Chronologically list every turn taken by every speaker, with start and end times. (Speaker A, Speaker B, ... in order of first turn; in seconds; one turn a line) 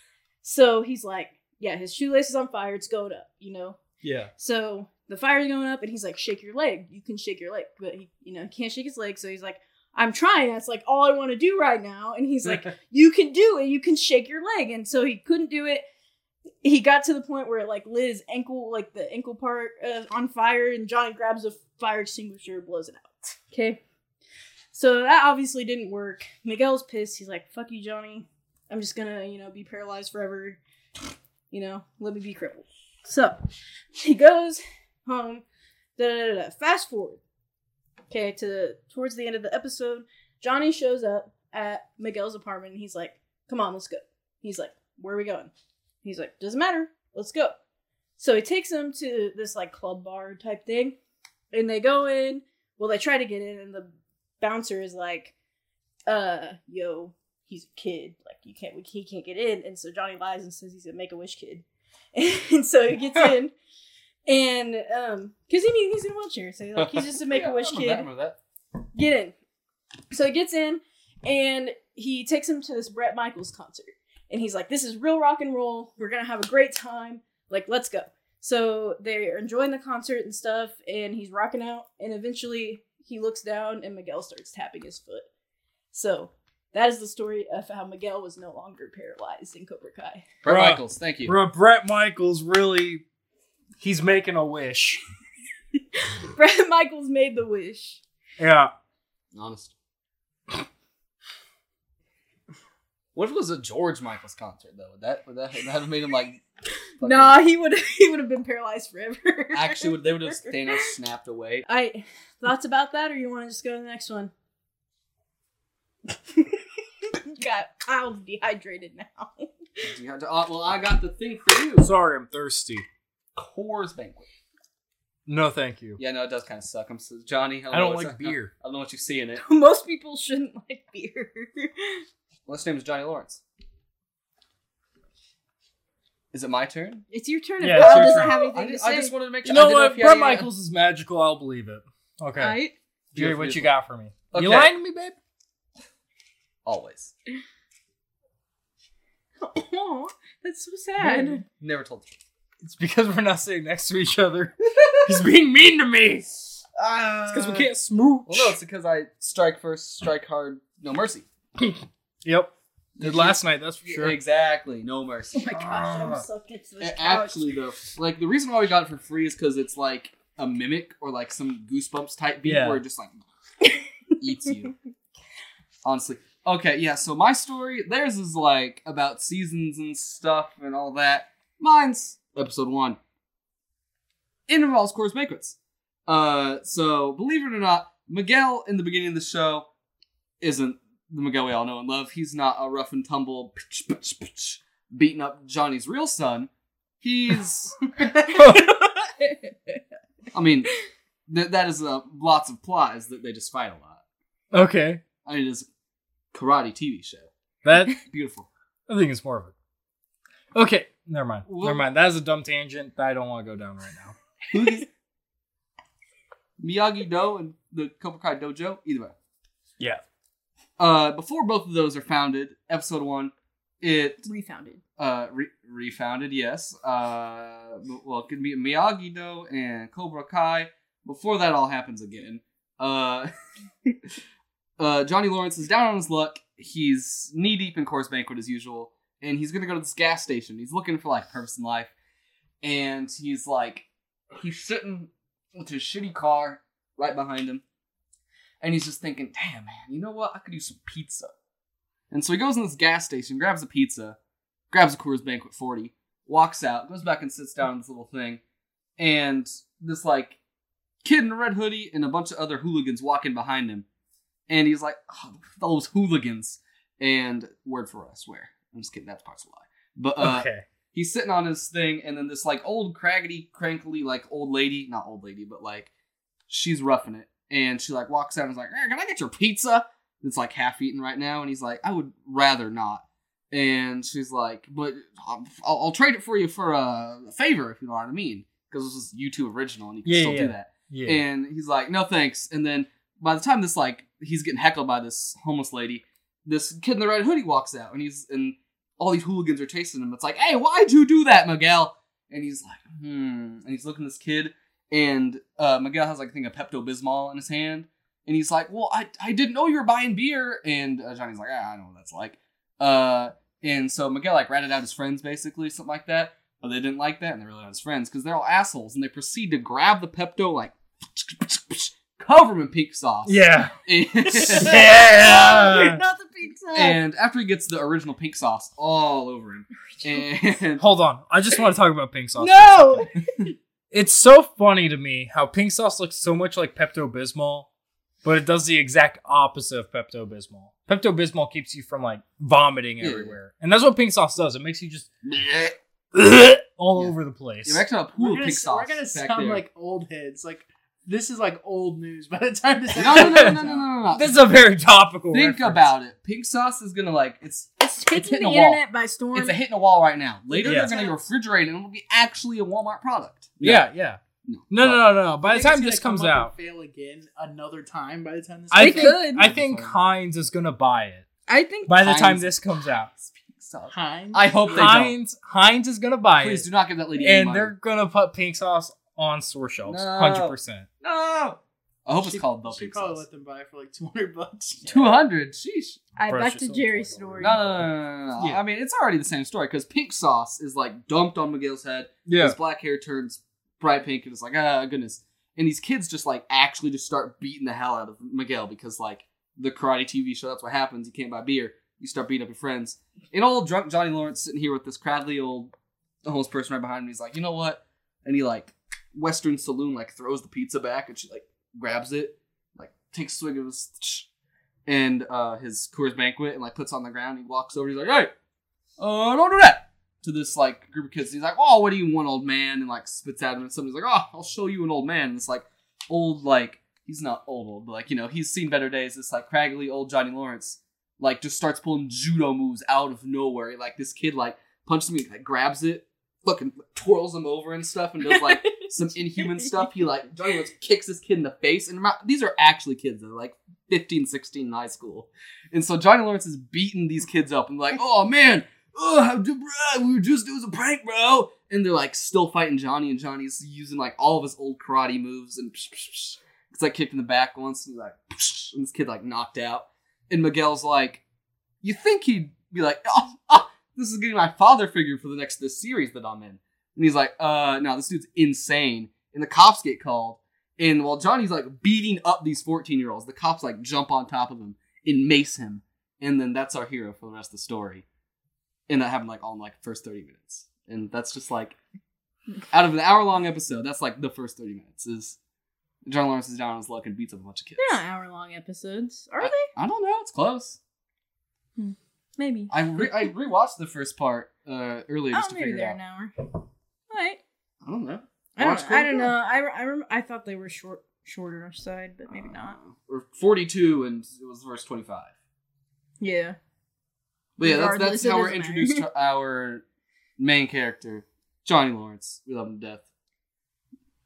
Speaker A: 0.4-3.8
Speaker B: 4.0-4.3
Speaker A: 4.4-15.8
Speaker A: 16.6-23.8
Speaker A: 24.7-30.6
Speaker A: 31.5-33.4
Speaker A: 34.0-35.4
Speaker A: 36.0-37.2
Speaker A: 38.1-45.5
Speaker A: 46.0-47.5
Speaker A: 48.2-51.0
Speaker A: 51.5-55.3
Speaker A: 56.1-61.6
Speaker A: 62.1-63.5
Speaker A: 64.3-68.1
Speaker C: 66.8-68.4
Speaker A: 69.0-69.3
Speaker A: 70.1-85.3
Speaker A: 85.9-90.3
Speaker C: 90.4-91.4
Speaker B: 90.5-93.0
Speaker B: 93.8-95.0
Speaker A: 96.0-98.0
Speaker B: 98.4-98.7
Speaker C: 99.3-99.7
Speaker C: 103.2-106.4
Speaker C: 107.0-107.4
Speaker A: 107.0-110.9
Speaker C: 109.5-111.7
Speaker A: 111.7-114.3
Speaker A: 116.3-116.6
Speaker A: 117.1-119.5
Speaker C: 119.8-121.9
Speaker B: 121.8-122.8
Speaker C: 123.4-124.3
Speaker B: 125.3-126.0
Speaker C: 126.0-129.4
Speaker B: 127.7-128.5
Speaker A: 129.4-132.0
Speaker C: 132.5-133.4
Speaker C: 136.3-137.1
Speaker A: 137.1-139.1
Speaker B: 137.6-138.4
Speaker C: 137.7-140.5
Speaker B: 139.4-142.6
Speaker A: 142.4-142.7
Speaker C: 143.1-143.7
Speaker B: 143.1-145.2
Speaker C: 144.3-144.7
Speaker C: 146.7-147.1
Speaker A: 149.4-151.4
Speaker C: 151.0-152.2
Speaker B: 152.6-156.6
Speaker C: 154.8-155.1
Speaker C: 156.8-157.7
Speaker B: 157.3-158.6
Speaker C: 158.3-161.3
Speaker B: 161.6-164.2
Speaker C: 163.0-165.5
Speaker A: 165.3-167.5
Speaker B: 165.6-166.2
Speaker C: 166.8-173.2
Speaker B: 172.4-172.8
Speaker C: 174.2-174.7
Speaker C: 175.8-183.0
Speaker C: 184.5-189.7
Speaker C: 190.4-196.5
Speaker C: 197.0-197.9
Speaker A: 198.3-199.8
Speaker B: 198.3-198.7
Speaker C: 200.3-200.7
Speaker C: 201.3-204.0
Speaker B: 204.5-205.0
Speaker C: 205.2-205.7
Speaker C: 206.3-207.3
Speaker B: 207.6-208.0
Speaker C: 208.0-208.5
Speaker B: 208.9-209.5
Speaker B: 210.5-214.2
Speaker C: 211.5-211.8
Speaker C: 214.5-214.9
Speaker C: 216.6-219.1
Speaker C: 220.8-224.3
Speaker A: 224.2-224.8
Speaker C: 225.0-233.3
Speaker C: 234.8-241.9
Speaker C: 242.6-247.6
Speaker C: 248.6-251.3
Speaker C: 252.1-254.2
Speaker C: 254.7-258.4
Speaker C: 259.0-260.4
Speaker C: 261.0-263.9
Speaker C: 264.5-275.9
Speaker B: 270.2-270.6
Speaker C: 276.5-324.9
Speaker B: 290.1-291.2
Speaker B: 323.2-323.8
Speaker B: 324.3-326.0
Speaker A: 324.6-327.0
Speaker C: 326.8-330.8
Speaker B: 330.8-333.1
Speaker A: 332.4-333.5
Speaker B: 333.9-337.7
Speaker B: 338.2-345.2
Speaker C: 343.0-343.4
Speaker C: 345.3-345.7
Speaker B: 346.1-347.8
Speaker C: 347.0-349.6
Speaker D: 348.2-353.9
Speaker C: 352.9-354.4
Speaker B: 353.0-355.9
Speaker C: 355.3-358.8
Speaker A: 357.8-359.6
Speaker C: 359.3-363.9
Speaker A: 360.5-361.2
Speaker B: 360.6-360.9
Speaker B: 363.6-366.5
Speaker C: 364.4-365.0
Speaker D: 365.4-369.2
Speaker B: 368.7-371.3
Speaker A: 368.8-369.5
Speaker C: 369.4-369.9
Speaker A: 371.5-372.0
Speaker B: 371.9-373.1
Speaker C: 372.0-372.6
Speaker C: 373.1-375.1
Speaker D: 373.9-375.0
Speaker B: 374.7-376.7
Speaker C: 376.4-377.7
Speaker B: 377.2-380.9
Speaker C: 379.9-383.2
Speaker D: 382.2-385.2
Speaker C: 384.9-386.0
Speaker A: 386.2-387.6
Speaker B: 386.3-387.9
Speaker C: 387.4-405.7
Speaker B: 392.3-392.6
Speaker C: 406.2-414.3
Speaker C: 414.9-418.3
Speaker C: 419.0-461.2
Speaker A: 438.2-439.9
Speaker C: 461.8-478.1
Speaker C: 478.9-481.8
Speaker C: 482.7-485.4
Speaker C: 486.1-488.0
Speaker A: 487.8-489.7
Speaker C: 489.4-490.8
Speaker A: 491.8-493.1
Speaker C: 492.7-496.0
Speaker A: 495.3-496.3
Speaker A: 497.1-497.4
Speaker C: 497.8-499.3
Speaker A: 498.6-502.8
Speaker C: 502.4-505.3
Speaker A: 506.2-506.6
Speaker C: 507.6-509.8
Speaker A: 507.6-509.0
Speaker C: 510.4-513.1